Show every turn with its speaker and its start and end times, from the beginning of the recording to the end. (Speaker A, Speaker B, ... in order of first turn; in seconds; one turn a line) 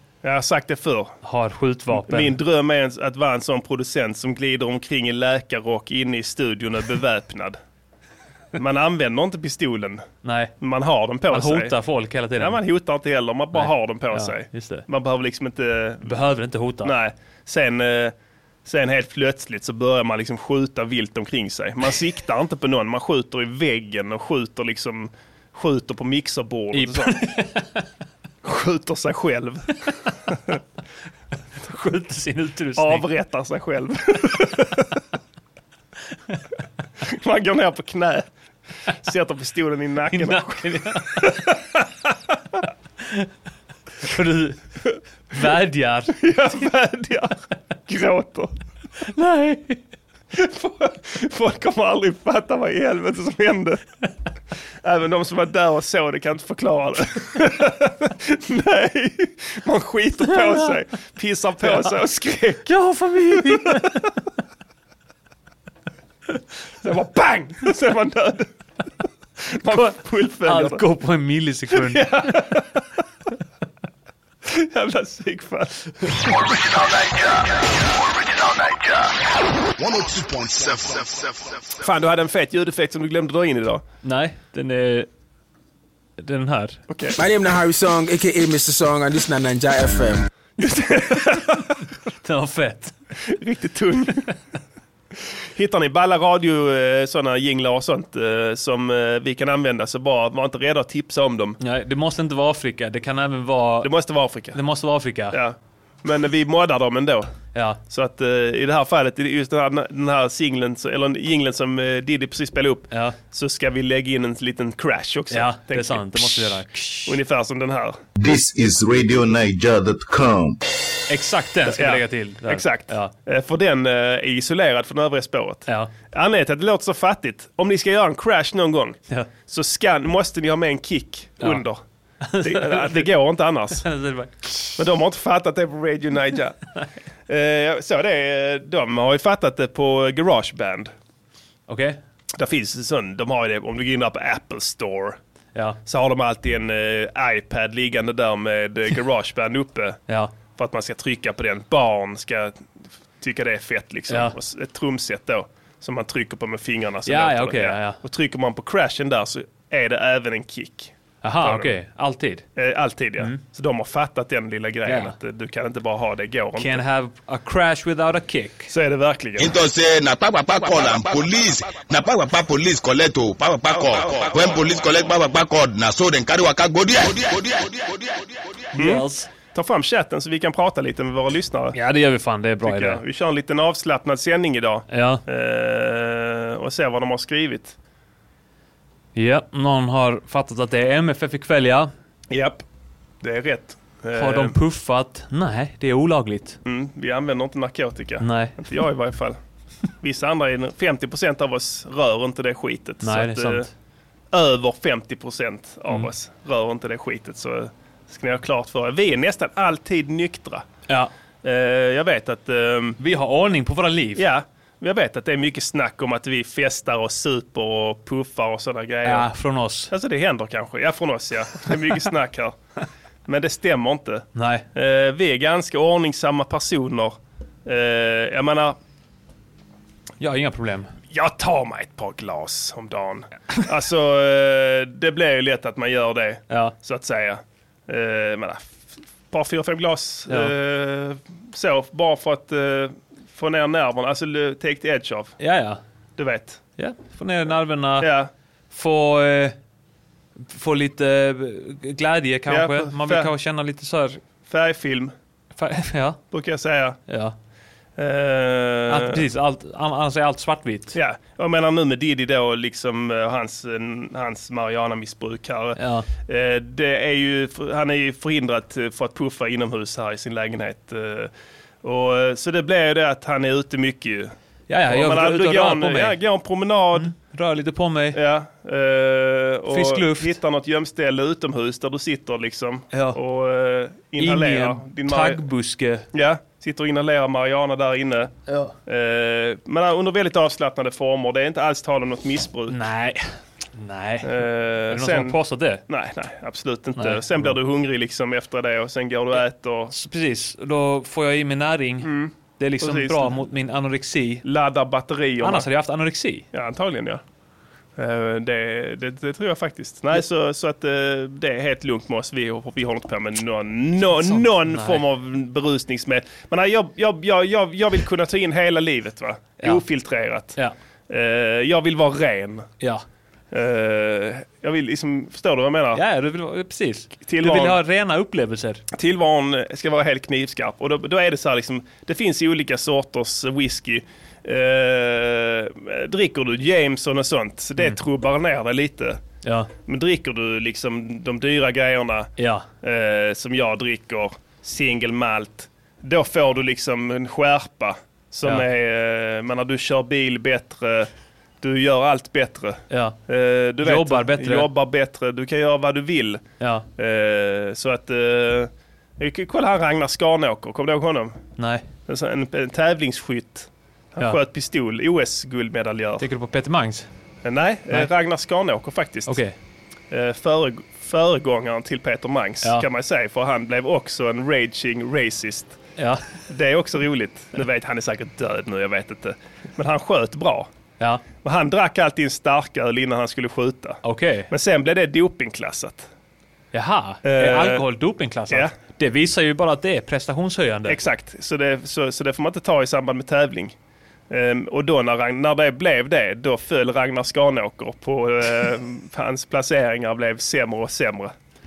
Speaker A: 0.2-1.2
Speaker B: 1.2-2.4
Speaker A: 1.9-7.6
Speaker A: 8.6-10.1
Speaker B: 10.2-10.5
Speaker A: 10.6-11.8
Speaker B: 11.3-12.6
Speaker A: 12.4-16.1
Speaker B: 13.6-14.8
Speaker B: 16.1-16.9
Speaker A: 16.8-18.1
Speaker A: 18.6-27.2
Speaker B: 26.7-27.7
Speaker A: 28.4-29.7
Speaker B: 31.6-33.0
Speaker A: 32.8-34.9
Speaker A: 37.0-38.3
Speaker A: 39.0-41.8
Speaker B: 40.1-41.4
Speaker B: 44.0-44.6
Speaker B: 45.3-46.1
Speaker A: 46.1-48.5
Speaker B: 49.1-49.8
Speaker A: 50.3-53.8
Speaker A: 54.8-62.7
Speaker B: 61.7-62.0
Speaker B: 62.7-64.1
Speaker A: 66.8-68.5
Speaker A: 69.5-70.8
Speaker B: 70.5-72.3
Speaker A: 71.7-72.7
Speaker A: 74.5-76.4
Speaker C: 79.8-81.8
Speaker A: 81.8-83.8
Speaker B: 84.0-85.1
Speaker B: 86.2-86.8
Speaker A: 86.9-87.2
Speaker D: 87.2-90.3
Speaker A: 90.6-91.6
Speaker B: 92.2-92.9
Speaker A: 93.3-94.3
Speaker A: 95.5-101.6
Speaker B: 101.6-103.9
Speaker A: 103.8-104.6
Speaker B: 104.5-105.4
Speaker A: 105.3-107.3
Speaker B: 107.5-107.8
Speaker A: 107.9-118.0
Speaker B: 115.3-117.2
Speaker E: 118.2-120.6
Speaker B: 121.1-123.1
Speaker A: 121.7-131.8
Speaker B: 132.2-133.1
Speaker A: 132.4-133.8
Speaker B: 133.8-134.8
Speaker A: 134.8-136.6
Speaker A: 137.3-140.9
Speaker B: 141.7-142.0
Speaker A: 142.4-145.2
Speaker A: 145.9-150.0
Speaker A: 150.6-152.7
Speaker A: 153.2-161.7
Speaker B: 157.1-158.0
Speaker B: 161.2-162.4
Speaker A: 162.6-166.8
Speaker B: 164.9-165.2
Speaker B: 166.6-168.7
Speaker A: 168.7-169.5
Speaker C: 169.4-178.6
Speaker B: 178.8-179.3
Speaker A: 178.8-181.8
Speaker B: 181.8-183.0
Speaker A: 182.6-187.8
Speaker B: 184.9-185.2
Speaker B: 189.2-191.9
Speaker A: 192.3-192.6
Speaker A: 193.2-194.5
Speaker B: 194.2-196.6
Speaker A: 196.7-199.4
Speaker B: 198.2-198.6
Speaker A: 200.0-203.7
Speaker B: 203.0-203.7
Speaker A: 204.3-210.7
Speaker A: 211.4-213.0
Speaker B: 213.0-214.2
Speaker A: 214.2-219.3
Speaker B: 219.0-219.9
Speaker A: 219.9-222.6
Speaker A: 223.3-228.8
Speaker B: 224.4-224.7
Speaker B: 230.2-230.9
Speaker A: 231.1-238.8
Speaker A: 239.3-245.4
Speaker B: 245.4-245.8
Speaker A: 246.2-246.6
Speaker B: 246.8-248.1
Speaker A: 248.0-248.3
Speaker B: 248.7-249.6
Speaker B: 250.5-254.2
Speaker A: 252.5-253.3
Speaker A: 254.5-255.1
Speaker B: 255.6-256.2
Speaker A: 256.3-257.0
Speaker B: 257.1-257.4
Speaker A: 258.0-259.2
Speaker B: 258.9-260.9
Speaker A: 260.9-271.3
Speaker B: 265.8-266.1
Speaker A: 271.8-274.3
Speaker B: 274.7-276.2
Speaker A: 274.9-277.1
Speaker B: 276.9-278.2
Speaker A: 278.1-285.4
Speaker B: 279.7-280.4
Speaker B: 282.9-283.2
Speaker B: 284.2-286.1
Speaker A: 286.1-288.4
Speaker B: 288.5-288.7
Speaker A: 288.9-292.8
Speaker B: 292.7-293.2
Speaker B: 293.8-295.8
Speaker A: 294.2-295.4
Speaker A: 295.9-299.9
Speaker B: 297.0-297.5
Speaker B: 299.9-304.4
Speaker A: 302.0-303.4
Speaker A: 304.4-305.7
Speaker B: 305.4-306.5
Speaker A: 306.5-307.2
Speaker A: 308.0-320.6
Speaker B: 314.2-315.0
Speaker A: 321.1-322.7
Speaker A: 323.5-326.0
Speaker B: 325.9-328.8
Speaker A: 327.2-327.8
Speaker A: 328.9-339.2
Speaker B: 339.4-339.7
Speaker A: 339.9-351.1
Speaker B: 342.4-342.7
Speaker A: 351.6-356.4
Speaker B: 352.9-353.2
Speaker B: 353.8-354.7
Speaker B: 356.6-356.9
Speaker A: 357.0-361.4
Speaker B: 361.6-361.9
Speaker A: 362.1-366.3
Speaker B: 366.2-367.1
Speaker A: 367.4-369.4
Speaker B: 369.3-369.5
Speaker A: 370.1-375.8
Speaker B: 376.0-376.2
Speaker A: 376.5-380.7
Speaker A: 381.4-386.1
Speaker B: 384.0-384.5
Speaker B: 386.7-391.0
Speaker A: 387.2-387.8
Speaker A: 390.9-393.8
Speaker A: 394.3-401.3